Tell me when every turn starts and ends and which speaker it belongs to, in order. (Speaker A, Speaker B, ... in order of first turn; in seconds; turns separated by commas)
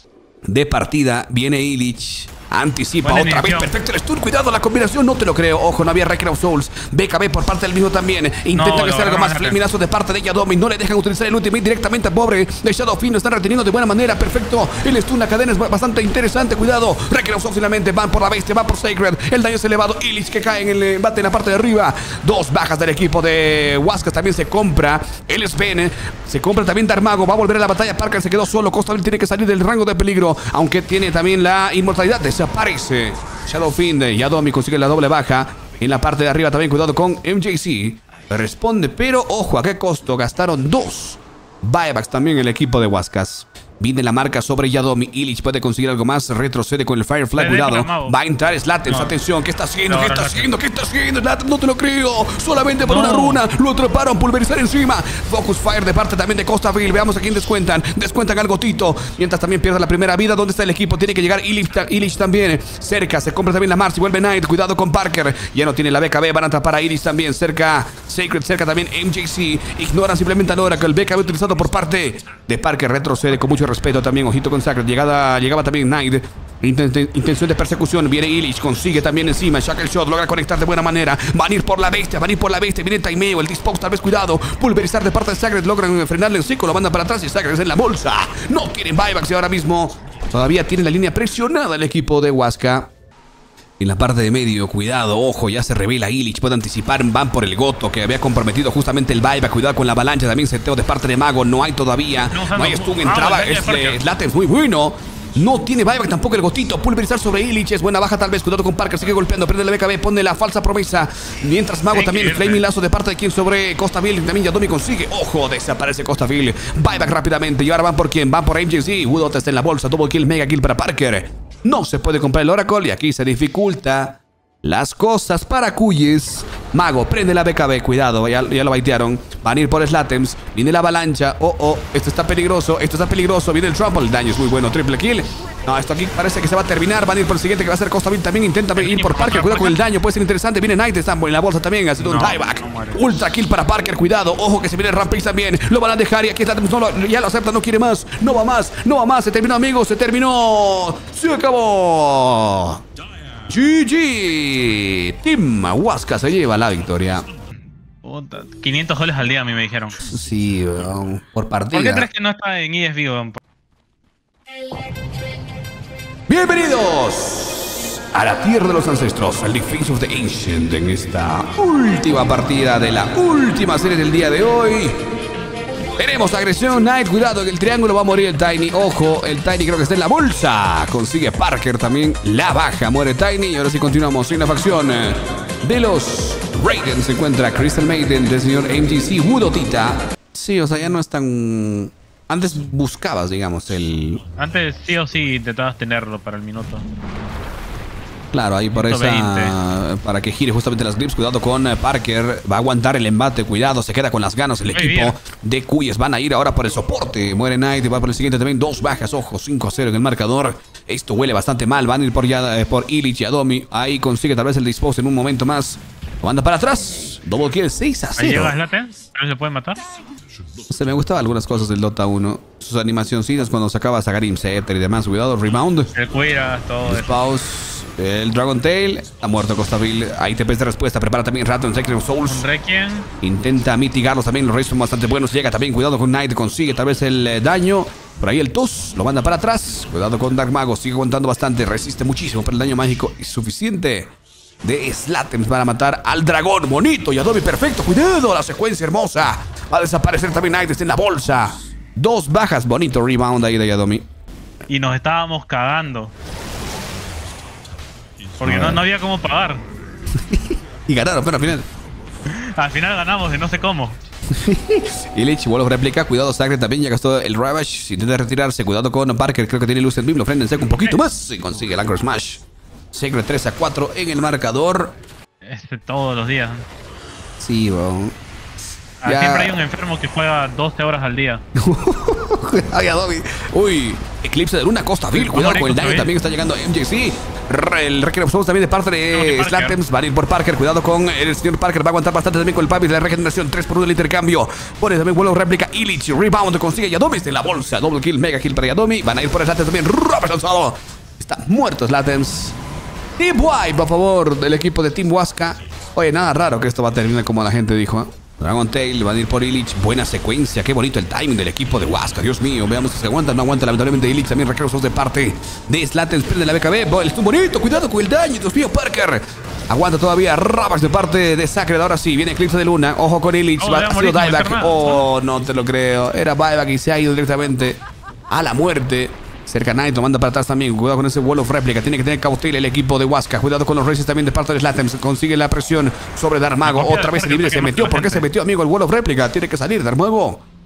Speaker A: 0.5-92.9, Speaker B: 3.0-3.7, Speaker B: 8.5-9.6, Speaker B: 47.4-48.2, Speaker B: 48.9-49.1, Speaker B: 49.9-50.5, Speaker B: 52.9-53.4, Speaker A: 93.8-152.8, Speaker B: 102.3-104.0, Speaker B: 111.9-112.6, Speaker B: 138.8-139.8, Speaker B: 142.0-143.2, Speaker A: 153.5-157.3, Speaker B: 158.0-160.0, Speaker A: 160.0-162.1, Speaker B: 161.7-163.4, Speaker A: 166.3-174.9, Speaker A: 176.0-194.2, Speaker B: 194.4-196.8, Speaker A: 198.3-218.6, Speaker B: 198.7-199.6, Speaker B: 204.7-205.2, Speaker B: 218.2-219.8, Speaker A: 220.7-225.9, Speaker B: 225.9-227.2, Speaker A: 226.8-232.5, Speaker B: 232.2-233.1, Speaker A: 233.2-244.1, Speaker A: 244.6-254.1, Speaker B: 254.7-256.1, Speaker B: 258.4-259.6, Speaker A: 258.4-258.9, Speaker A: 260.2-261.7, Speaker B: 262.3-264.0, Speaker A: 264.3-274.9, Speaker B: 270.6-271.0, Speaker B: 275.4-276.7, Speaker A: 277.4-278.1, Speaker B: 279.0-281.4, Speaker A: 279.1-279.6, Speaker A: 281.6-302.6, Speaker B: 285.1-286.1, Speaker B: 289.1-289.8, Speaker A: 303.2-340.4, Speaker B: 323.6-325.1, Speaker B: 336.6-338.3